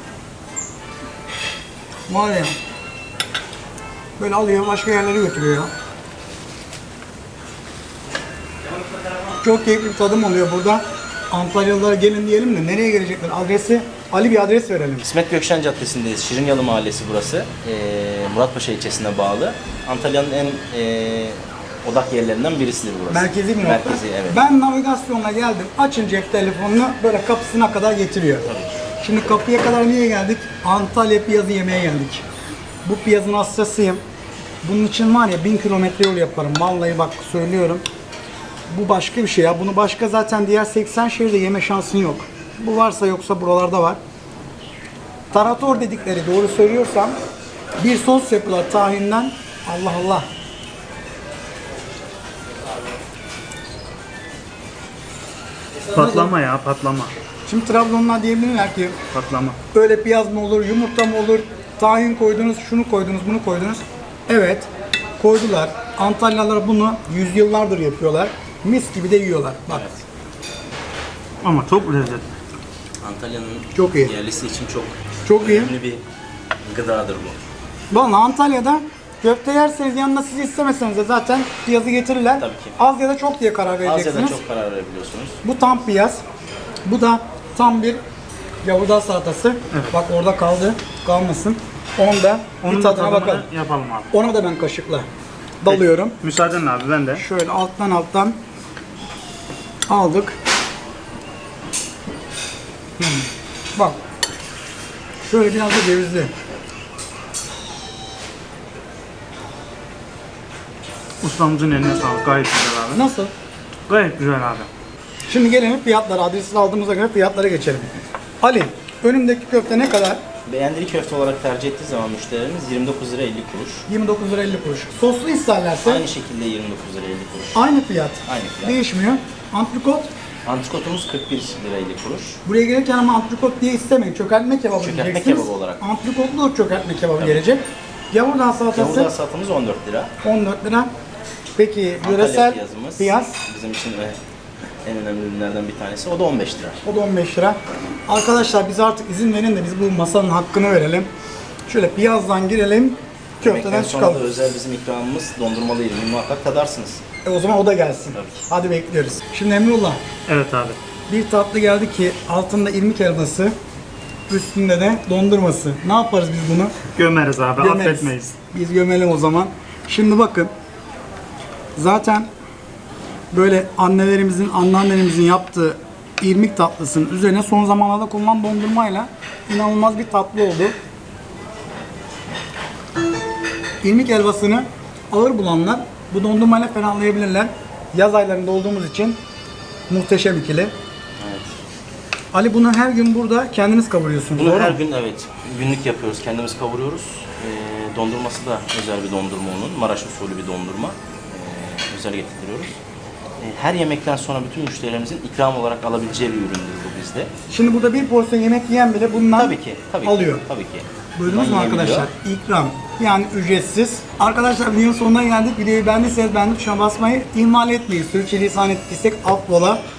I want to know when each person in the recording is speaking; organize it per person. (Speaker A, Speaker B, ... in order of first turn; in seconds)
Speaker A: 2.1-2.5, 4.2-5.7, 9.4-15.1, 23.1-28.5, 29.0-32.2, 32.8-34.0, 34.6-37.8, 38.7-44.0, 45.3-47.1, 47.8-50.2, 55.9-56.3, 57.5-58.9, 59.7-64.7, 65.2-69.8, 73.7-74.1, 75.2-75.7, 77.9-84.4, 85.4-86.2, 86.8-88.0, 88.6-93.5, 94.1-95.1, 95.6-96.2, 97.2-98.4, 99.9-100.3, 103.0-104.0, 105.3-106.3, 112.9-113.3, 115.3-120.2, 123.9-126.0, 127.5-130.1, 132.4-139.1, 140.2-140.9, 141.6-143.4, 146.8-151.1, 151.7-154.2, 157.2-160.0, 161.1-163.5, 164.3-166.7, 167.6-170.5, 171.8-172.3, 173.3-180.7, 183.8-189.2, 189.9-190.7, 192.3-194.8, 207.5-210.4, 211.2-219.8
Speaker B: 15.0-24.4, 28.4-28.8, 69.7-70.0, 73.0-76.0, 76.6-77.4, 82.3-82.8, 83.8-85.4, 120.4-123.8, 125.8-127.6, 128.2-128.8, 130.4-132.4, 134.8-135.8, 137.2-137.5, 138.7-140.1, 142.0-144.2, 144.8-146.8, 153.4-157.0, 158.1-158.4, 191.2-191.5, 194.3-202.8, 203.4-207.3, 209.1-212.1
Speaker C: 55.9-57.1, 59.1-59.6, 71.4-72.3, 92.6-94.1, 95.6-97.2, 111.2-113.0, 113.9-114.7, 160.3-160.8, 166.9-168.3